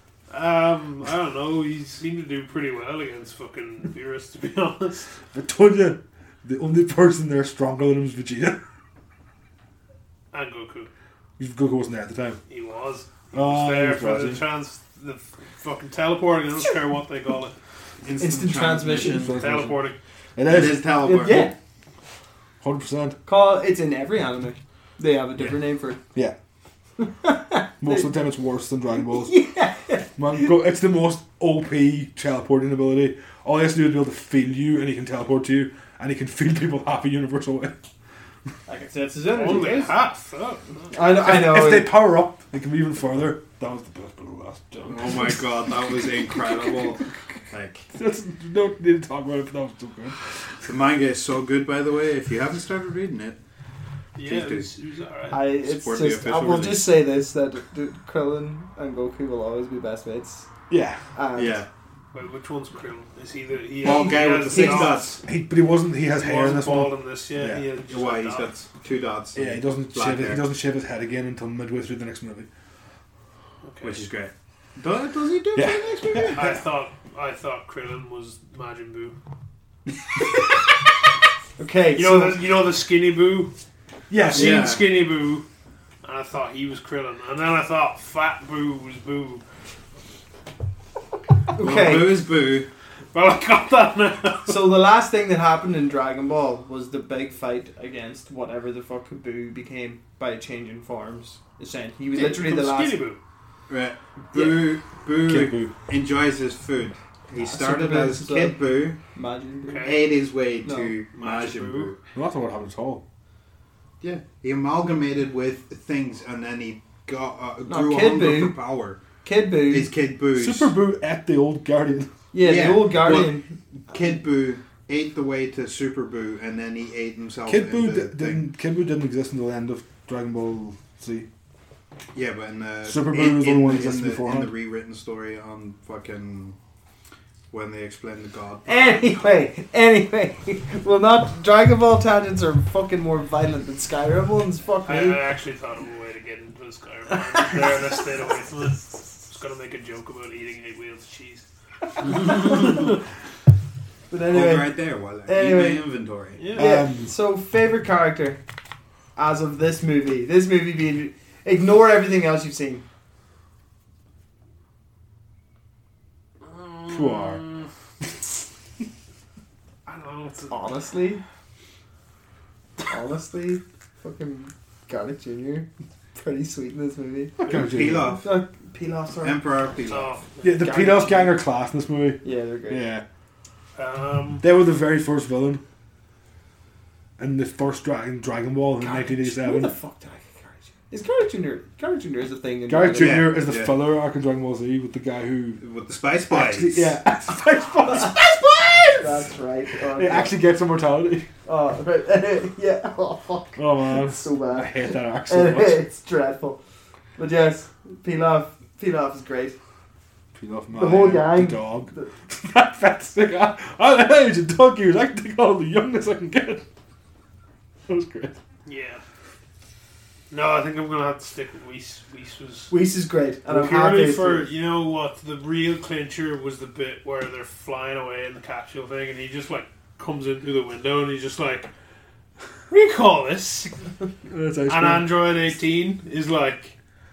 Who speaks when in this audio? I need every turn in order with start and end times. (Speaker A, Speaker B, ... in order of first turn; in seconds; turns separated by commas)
Speaker A: 0.3-5.1, Speaker B: 5.3-8.6, Speaker A: 10.3-10.9, Speaker B: 11.4-12.4, Speaker A: 12.5-17.5, Speaker B: 13.3-14.4, Speaker C: 18.0-19.4, Speaker D: 18.2-19.4, Speaker B: 19.0-19.8, Speaker A: 19.4-20.0, Speaker B: 20.4-21.5, Speaker C: 20.4-21.5, Speaker D: 21.0-21.6, Speaker B: 22.6-23.2, Speaker D: 23.3-26.0, Speaker D: 27.0-28.1, Speaker B: 27.8-29.4, Speaker D: 29.1-30.4, Speaker B: 30.2-37.8, Speaker D: 38.7-40.0, Speaker A: 39.3-40.9, Speaker D: 40.9-42.0, Speaker B: 41.1-45.8, Speaker C: 44.9-47.9, Speaker B: 47.9-50.2, Speaker C: 50.6-53.4, Speaker A: 54.1-55.4, Speaker C: 54.2-54.7, Speaker D: 55.3-60.5, Speaker C: 55.5-56.9, Speaker B: 60.7-61.0, Speaker D: 61.1-61.6, Speaker C: 61.4-61.7, Speaker A: 62.1-65.1, Speaker C: 63.8-65.2, Speaker D: 63.9-65.0, Speaker B: 65.2-67.7, Speaker A: 66.1-68.6, Speaker C: 67.9-70.4, Speaker B: 69.3-72.5, Speaker A: 73.6-74.0, Speaker C: 73.8-76.5, Speaker B: 75.5-76.6, Speaker A: 76.3-79.2, Speaker D: 81.6-82.4, Speaker A: 82.0-83.5, Speaker B: 84.1-84.7, Speaker A: 84.1-85.5, Speaker C: 84.3-84.9, Speaker A: 86.0-89.4, Speaker D: 91.5-92.2, Speaker C: 91.6-92.7, Speaker A: 93.1-94.7, Speaker D: 94.5-103.0, Speaker A: 102.1-103.2, Speaker C: 103.7-109.0, Speaker B: 105.2-105.7, Speaker D: 107.4-108.6, Speaker D: 109.1-110.0, Speaker A: 109.7-110.1, Speaker C: 109.8-112.0, Speaker D: 110.6-111.0, Speaker A: 111.1-112.0, Speaker B: 112.1-113.0, Speaker C: 114.0-119.0, Speaker D: 117.7-118.6, Speaker D: 119.2-119.9, Speaker C: 119.7-120.7, Speaker B: 120.3-122.2, Speaker D: 122.3-123.5, Speaker C: 122.4-128.4, Speaker B: 127.5-131.3, Speaker C: 132.1-136.6, Speaker B: 132.8-134.5, Speaker C: 137.5-139.2, Speaker D: 138.7-145.2, Speaker A: 144.9-151.5, Speaker A: 152.0-153.0, Speaker D: 154.1-155.9, Speaker C: 154.3-156.4, Speaker A: 156.4-156.8, Speaker B: 156.6-157.1, Speaker D: 156.6-158.4, Speaker D: 159.2-162.8, Speaker A: 166.5-167.7, Speaker B: 166.9-167.4, Speaker A: 169.9-170.6, Speaker D: 170.5-171.2, Speaker D: 172.9-177.3, Speaker B: 177.4-178.2, Speaker C: 177.5-178.3, Speaker D: 178.2-179.4, Speaker C: 179.2-180.1, Speaker A: 179.9-181.0, Speaker B: 180.4-183.0, Speaker D: 180.6-181.3, Speaker D: 182.2-182.9, Speaker A: 183.8-184.4, Speaker B: 184.4-185.6, Speaker B: 187.2-189.7, Speaker D: 188.8-193.3, Speaker B: 192.7-195.6, Speaker C: 192.9-193.8, Speaker C: 195.6-196.9, Speaker B: 196.3-199.3, Speaker D: 199.0-200.4, Speaker B: 199.9-201.3, Speaker D: 201.5-206.6, Speaker B: 203.6-205.8, Speaker D: 207.2-209.6, Speaker B: 210.3-216.6, Speaker D: 210.8-212.1, Speaker B: 217.9-218.4, Speaker A: 218.7-219.0, Speaker A: 220.3-222.7, Speaker D: 222.7-224.5, Speaker A: 223.5-231.7, Speaker A: 232.7-233.8, Speaker B: 234.3-235.1, Speaker A: 234.7-236.7